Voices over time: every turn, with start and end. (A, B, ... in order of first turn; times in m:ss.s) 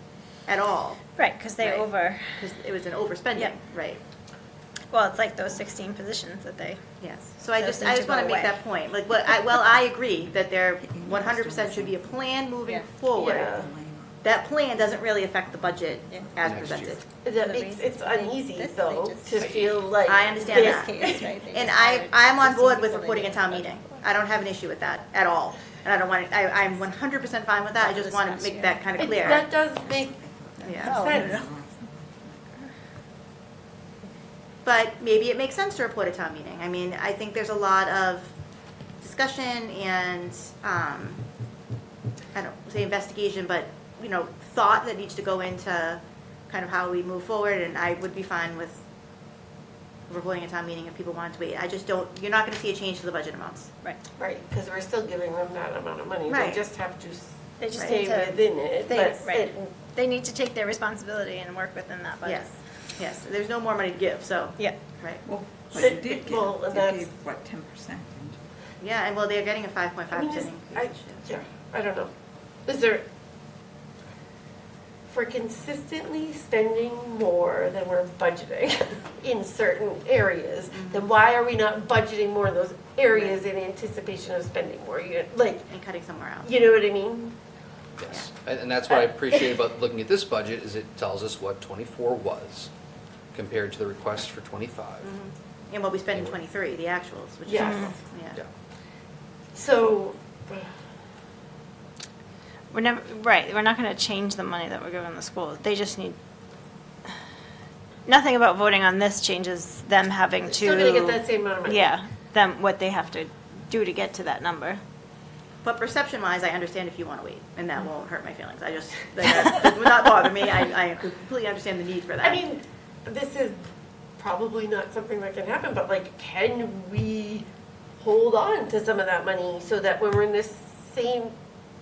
0:00.4-0:01.0 A
0:01.2-0:02.4 B
0:01.6-0:04.0 A
0:04.9-0:06.9 B
0:07.0-0:13.7 A
0:07.6-0:08.6 B
0:10.8-0:12.2 C
0:13.1-0:13.7 D
0:13.2-0:14.2 C
0:14.2-0:17.0 A
0:15.4-0:16.8 C
0:16.4-0:17.0 E
0:17.2-0:20.9 D
0:17.4-0:19.5 B
0:20.0-0:29.5 A
0:20.4-0:23.8 B
0:20.8-0:21.3 C
0:27.8-0:29.4 B
0:29.0-0:30.2 D
0:29.8-0:32.7 C
0:30.6-0:31.0 A
0:30.8-0:31.4 B
0:30.8-0:31.5 D
0:34.6-0:38.3 A
0:39.0-0:41.2 A
0:42.3-0:48.8 A
0:50.1-0:53.7 A
0:54.2-0:59.7 D
0:56.3-0:56.6 A
0:57.6-1:02.6 B
0:57.7-0:58.0 A
1:02.2-1:05.2 A
1:05.2-1:08.4 C
1:05.7-1:07.1 D
1:08.8-1:11.3 A
1:10.1-1:12.1 D
1:12.6-1:13.0 D
1:15.1-1:25.7 D
1:20.7-1:21.0 A
1:23.1-1:23.4 A
1:25.7-1:26.5 A
1:26.4-1:27.4 D
1:28.0-1:32.7 E
1:33.3-1:35.1 E
1:35.0-1:38.4 A
1:37.4-1:37.9 D
1:37.6-1:37.9 B
1:39.5-1:40.7 D
1:42.7-1:46.2 B
1:48.0-1:54.8 B
1:50.5-1:51.9 D
1:55.6-2:02.4 A
2:02.2-2:11.3 D